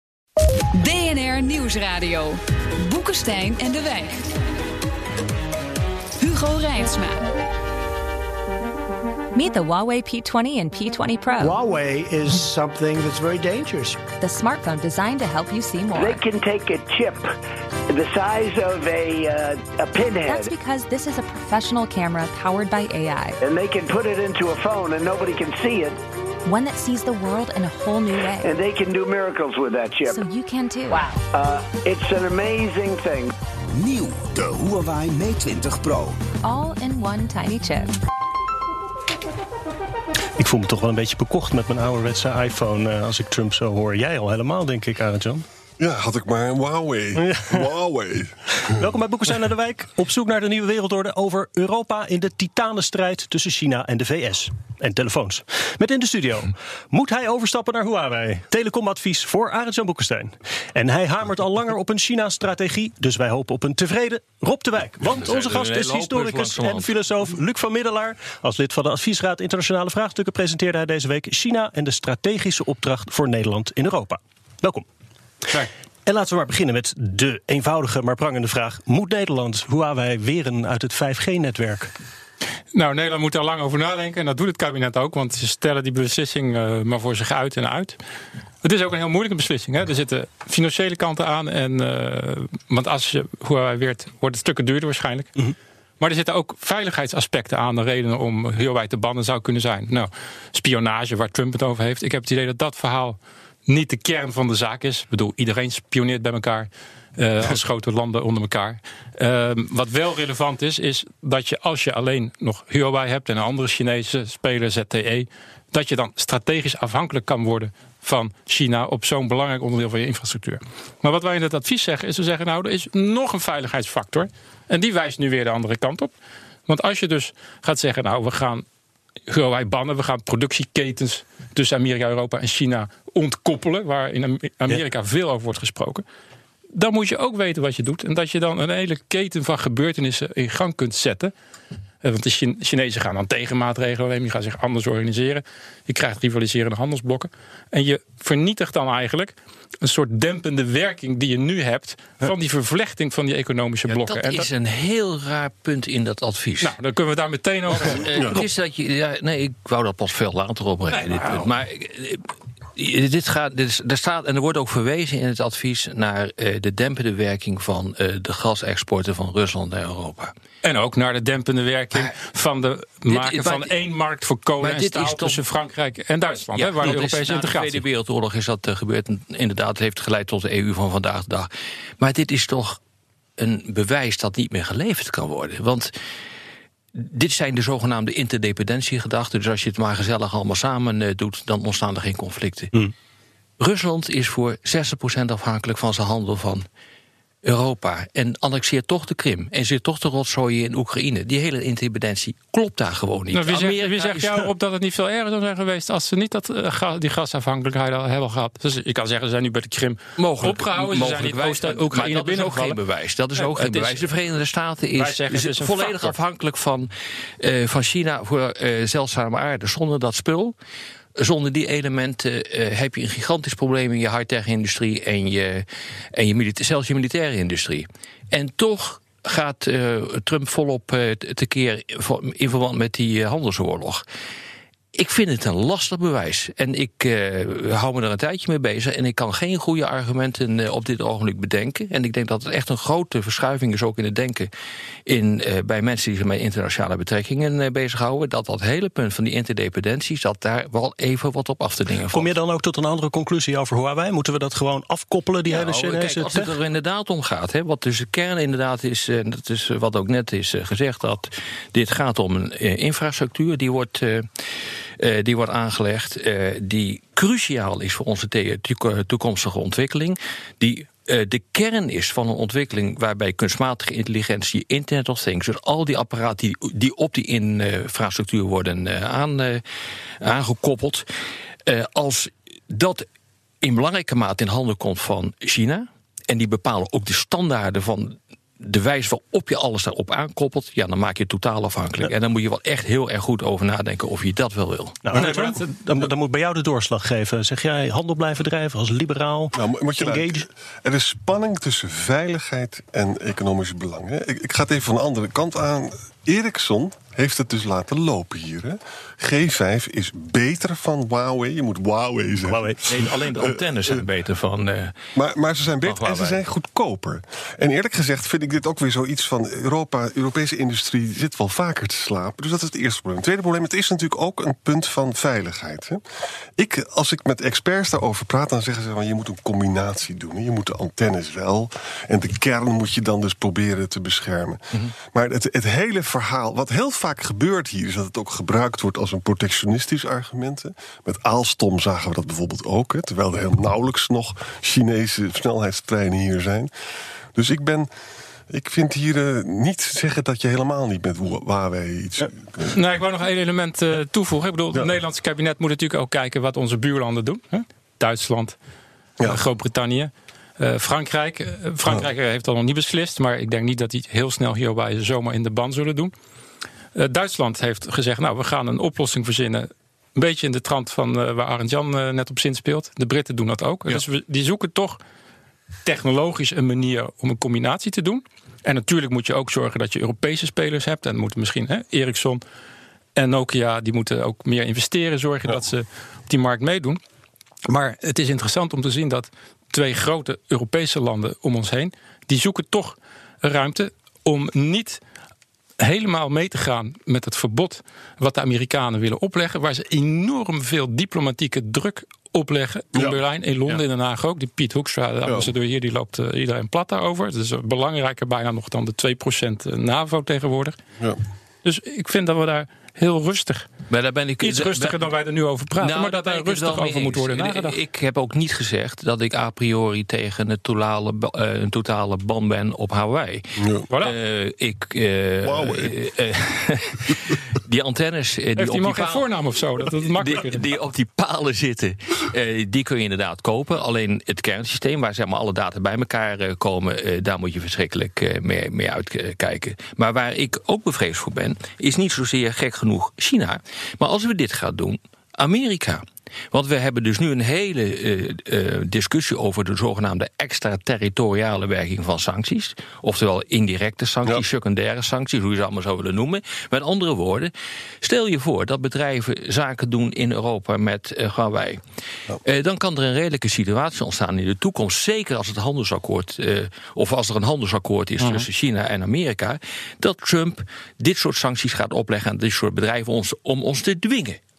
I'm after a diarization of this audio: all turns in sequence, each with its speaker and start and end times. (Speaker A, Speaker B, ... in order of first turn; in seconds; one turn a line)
Speaker A: 0.7-4.3
Speaker A: 6.2-7.2
Speaker B: 9.3-11.6
Speaker C: 11.4-14.0
Speaker B: 14.2-16.2
Speaker D: 15.9-17.3
Speaker D: 17.9-20.5
Speaker B: 20.3-23.4
Speaker D: 23.4-26.0
Speaker B: 26.4-28.5
Speaker D: 28.4-30.2
Speaker B: 30.1-31.0
Speaker D: 30.9-33.3
Speaker E: 33.7-36.2
Speaker B: 36.4-37.9
Speaker F: 40.4-45.4
Speaker G: 45.8-48.7
Speaker F: 47.2-47.6
Speaker F: 48.6-74.8
Speaker H: 65.0-67.0
Speaker F: 76.0-81.9
Speaker I: 82.7-88.0
Speaker I: 88.6-95.3
Speaker I: 96.0-126.1
Speaker I: 126.7-128.6
Speaker I: 129.3-136.0
Speaker I: 136.7-141.3
Speaker I: 142.0-154.5
Speaker H: 153.9-156.7
Speaker I: 156.6-158.4
Speaker H: 157.8-162.2
Speaker G: 158.1-158.4
Speaker I: 160.9-161.5
Speaker H: 162.7-170.3
Speaker I: 170.6-177.8
Speaker H: 173.1-173.8
Speaker H: 174.6-175.4
Speaker H: 176.5-182.8
Speaker H: 183.4-185.9
Speaker H: 186.9-192.7
Speaker H: 193.6-196.7
Speaker H: 197.4-204.5
Speaker I: 203.3-212.8
Speaker H: 210.2-220.5
Speaker I: 213.3-214.1
Speaker I: 214.9-216.2
Speaker H: 221.2-234.0
Speaker H: 234.9-244.5
Speaker H: 245.1-252.3
Speaker F: 252.1-256.5
Speaker H: 255.5-279.6
Speaker H: 280.2-281.1
Speaker H: 281.6-283.1
Speaker H: 283.6-295.2
Speaker F: 295.0-300.4
Speaker I: 295.1-295.7
Speaker G: 299.5-314.0
Speaker F: 312.5-312.8
Speaker H: 312.9-314.9
Speaker G: 315.1-326.0
Speaker H: 315.8-316.4
Speaker G: 326.6-346.7
Speaker G: 347.3-347.9
Speaker G: 348.5-352.7
Speaker I: 352.7-358.6
Speaker I: 359.2-366.1
Speaker I: 366.9-375.0
Speaker I: 375.8-382.4
Speaker I: 383.1-387.0
Speaker I: 387.7-395.0
Speaker I: 395.8-410.8
Speaker I: 411.6-413.7
Speaker H: 413.9-415.0
Speaker I: 414.4-417.8
Speaker H: 415.8-429.2
Speaker I: 423.9-424.1
Speaker G: 425.4-425.9
Speaker I: 428.6-430.6
Speaker H: 429.9-461.8
Speaker H: 462.4-474.4
Speaker I: 468.2-468.5